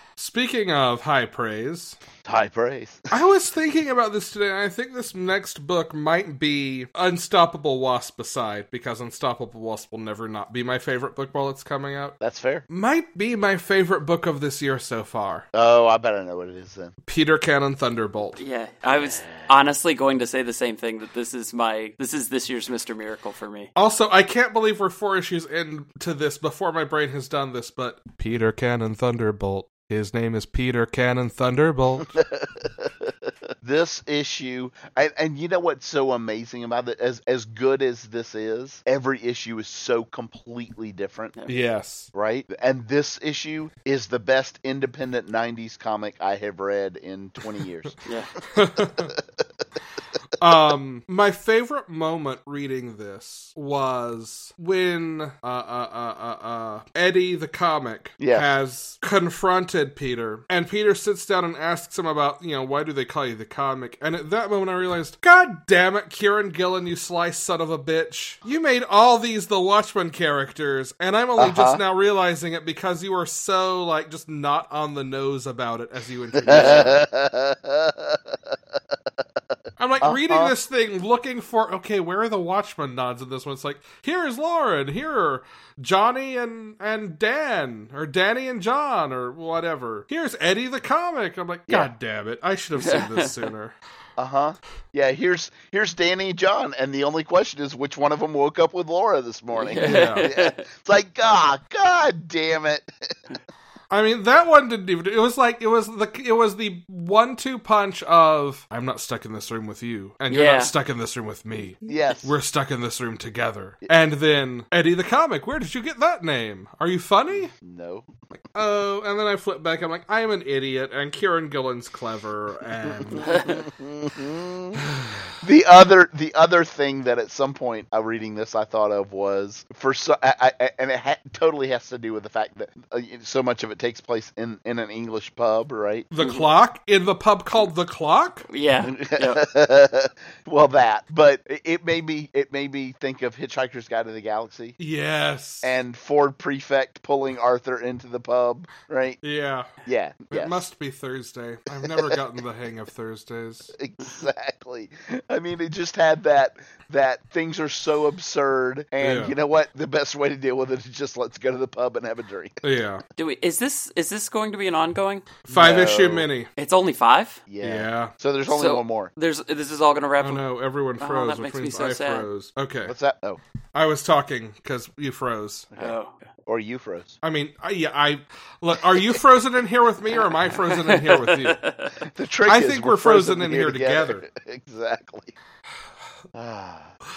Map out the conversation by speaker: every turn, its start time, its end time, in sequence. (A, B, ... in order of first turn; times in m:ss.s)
0:00.2-0:02.0 A
0:02.2-0:03.1 B
0:03.1-0:12.2 A
0:12.2-0:12.7 B
0:12.7-0:15.5 A
0:15.5-0:16.9 B
0:17.1-0:18.4 A
0:18.4-0:23.7 C
0:18.9-0:19.5 B
0:23.8-0:32.2 A
0:32.1-0:41.4 B
0:41.5-0:42.1 A
0:42.1-0:48.0 B
0:48.5-0:49.1 A
0:48.8-0:49.4 B
0:50.4-1:17.0 A
0:58.2-0:58.5 B
1:11.4-1:11.8 B
1:16.4-1:18.6 B
1:16.5-1:16.9 C
1:19.8-1:33.8 A
1:20.0-1:20.5 B
1:32.8-1:33.4 C
1:34.2-1:43.2 B
1:39.5-1:40.6 C
1:39.8-1:40.3 A
1:43.9-1:57.5 A
1:50.3-1:50.7 C
1:51.9-1:52.4 B
1:57.5-1:58.3 B
1:58.4-2:03.4 A
2:03.0-2:04.8 B
2:03.2-2:03.6 C
2:04.9-2:05.2 A
2:05.4-2:16.1 B
2:16.1-2:18.5 A
2:16.2-2:16.5 C
2:18.5-2:19.4 C
2:18.8-2:24.8 B
2:24.8-2:25.8 A
2:25.6-2:29.2 B
2:29.2-2:29.7 A
2:29.8-2:30.7 B
2:30.3-2:33.7 A
2:31.8-2:32.2 B
2:33.8-2:42.6 B
2:39.0-2:39.4 A
2:42.6-2:43.0 A
2:43.2-2:45.3 C
2:45.5-2:46.5 A
2:45.5-2:46.3 B
2:46.6-2:47.4 C
2:47.5-2:49.1 B
2:47.6-2:48.1 A
2:48.5-2:50.5 C
2:50.2-2:52.9 A
2:51.0-2:52.3 C
2:52.8-2:53.4 B
2:53.7-2:55.7 A
2:55.7-2:57.2 B
2:55.8-2:56.3 C
2:57.2-3:01.6 A
3:00.4-3:02.1 C
3:02.0-3:05.3 B
3:02.5-3:04.2 A
3:06.3-3:06.9 B